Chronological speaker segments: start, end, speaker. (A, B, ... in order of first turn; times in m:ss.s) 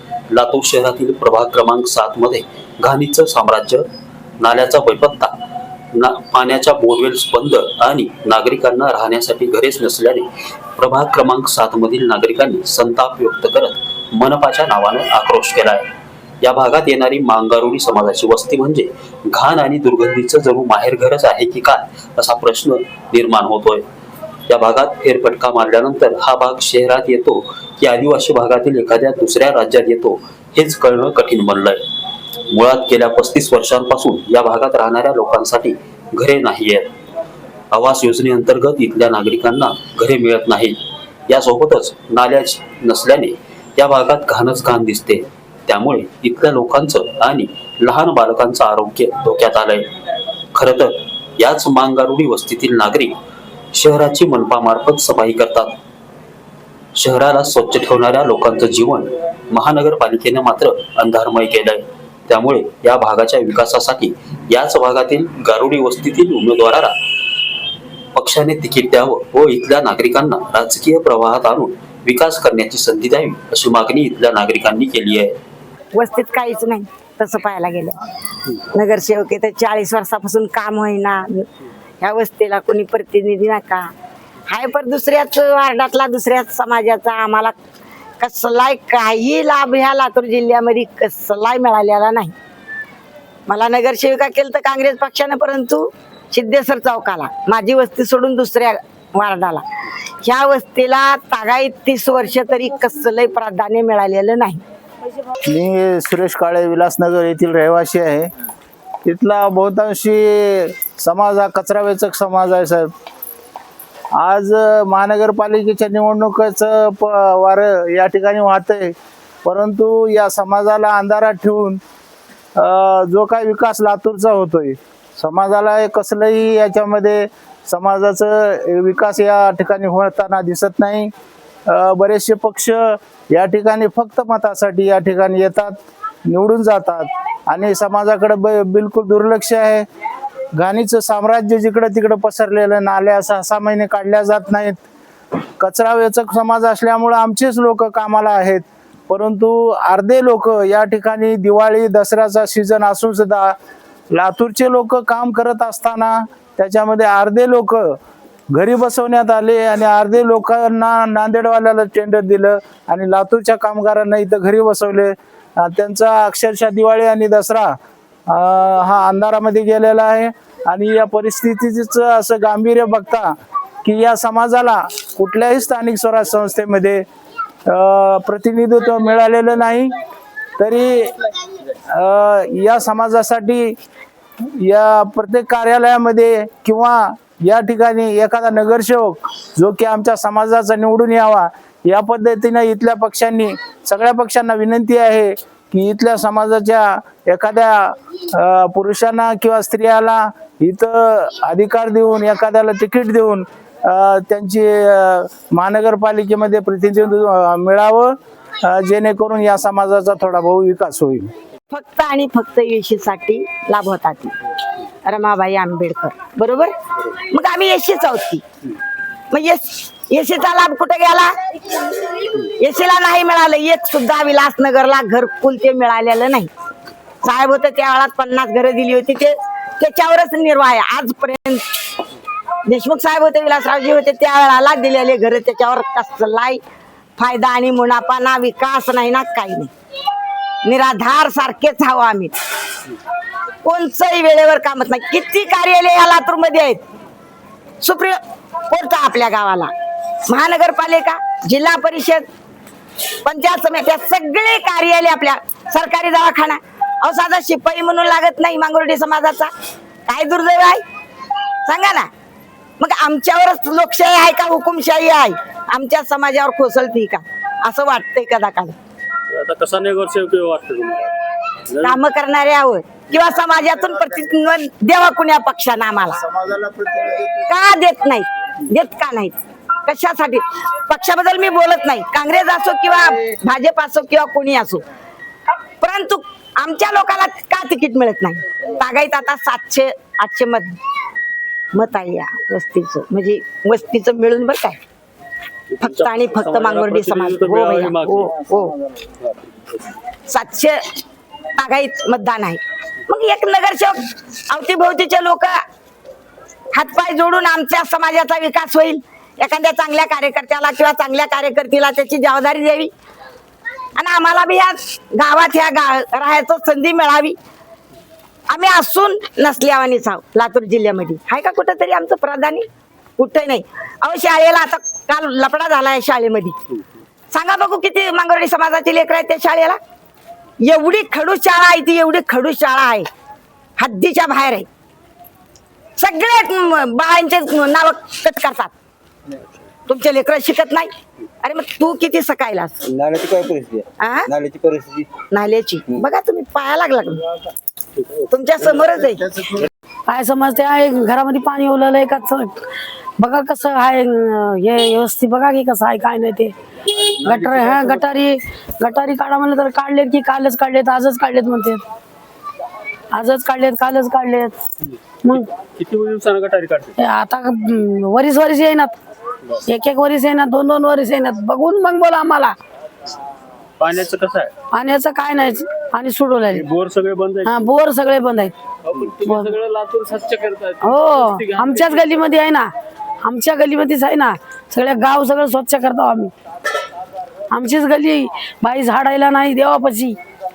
0:00.3-0:03.8 A
0:04.4-0:05.3 A
0:05.9-0:15.9 A
0:16.4-0:23.8 A
0:24.5-0:31.8 A
0:32.5-0:36.9 A
0:37.7-0:40.8 A
0:41.3-0:49.9 A
0:50.5-0:53.1 A
0:53.7-0:55.7 A
0:57.0-1:06.9 A
1:08.1-1:15.4 A
1:15.9-1:18.0 B
1:18.7-1:21.5 B
1:22.0-1:23.9 B
1:24.5-1:27.5 B
1:28.2-1:32.3 B
1:33.5-1:39.6 B
1:40.2-1:44.6 B
1:45.5-1:48.3 C
1:49.0-1:52.9 C
1:54.2-2:01.8 C
2:02.6-2:11.1 C
2:11.7-2:19.8 C
2:20.6-2:24.8 C
2:25.6-2:33.6 C
2:34.1-2:38.0 C
2:38.5-2:47.8 C
2:48.3-2:57.0 C
2:57.7-2:59.9 C
3:00.6-3:01.3 C
3:01.9-3:03.8 C
3:04.4-3:31.3 C
3:31.7-3:34.3 B
3:35.0-3:38.4 B
3:39.3-3:41.3 B
3:42.2-3:46.5 B
3:47.2-3:51.6 B
3:52.7-3:56.6 B
3:57.2-3:59.7 B
4:00.6-4:02.3 B
4:03.6-4:06.8 B
4:07.8-4:09.7 B
4:10.3-4:12.2 B
4:13.2-4:19.5 B
4:20.1-4:20.8 B
4:21.6-4:22.1 B
4:22.8-4:28.8 B
4:29.4-4:29.9 D
4:31.8-4:36.2 B
4:36.3-4:37.4 C
4:37.5-4:44.8 B
4:45.8-4:50.8 B
4:51.7-4:54.8 B
4:55.8-4:58.7 B
4:55.9-4:58.1 D
5:00.3-5:00.8 B
5:01.6-5:05.6 B
5:06.7-5:12.9 B
5:14.0-5:17.4 B
5:18.5-5:22.6 B
5:23.2-5:26.6 B
5:27.3-5:29.8 B
5:30.7-5:33.1 B
5:33.8-5:34.7 B
5:36.0-5:38.7 B
5:39.9-5:40.9 B
5:41.4-5:42.8 B
5:42.8-5:45.1 E
5:44.0-5:44.3 B
5:45.3-5:47.2 B
5:48.3-5:49.2 B
5:50.1-5:52.6 F
5:53.2-6:01.8 F
6:03.1-6:04.6 F
6:05.2-6:05.5 F
6:05.8-6:06.9 D
6:07.0-6:08.9 F
6:09.7-6:12.5 F
6:13.8-6:14.5 D
6:14.6-6:16.7 F
6:16.6-6:17.5 D
6:17.4-6:18.5 F
6:19.1-6:19.6 F
6:20.0-6:20.7 D
6:20.8-6:22.7 F
6:23.2-6:26.3 F
6:27.5-6:30.2 F